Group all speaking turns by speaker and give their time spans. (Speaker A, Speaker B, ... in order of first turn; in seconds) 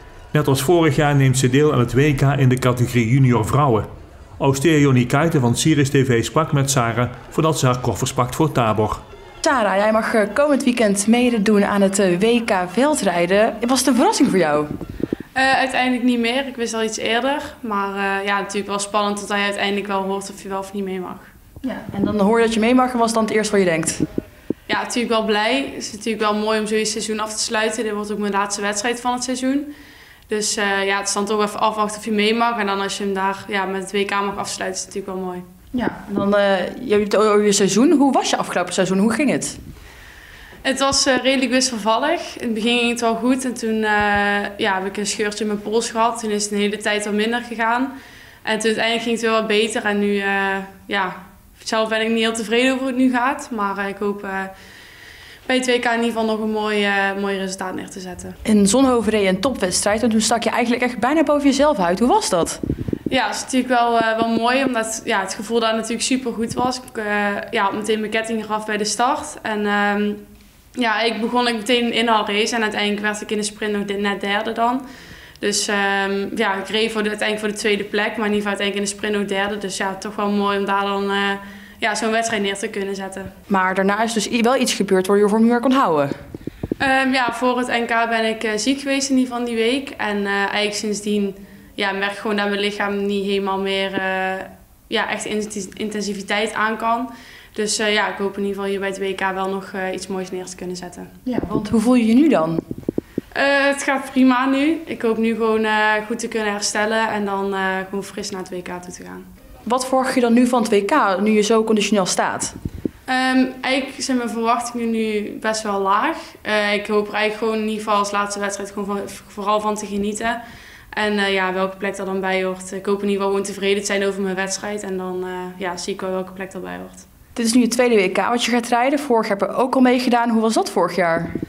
Speaker A: 0.3-3.9, 4.4-9.0
Speaker B: 9.4-14.7, 21.6-24.0, 35.7-39.6, 58.5-62.6, 83.5-86.1, 101.3-102.6, 109.7-112.5, 127.3-131.3
Speaker C: 15.3-21.3, 24.7-29.7, 30.3-35.4, 40.6-47.9, 48.4-54.5, 55.5-58.4, 63.1-70.2, 70.8-74.8, 75.4-83.3, 86.8-101.1, 103.3-109.3, 113.1-120.4, 120.9-127.0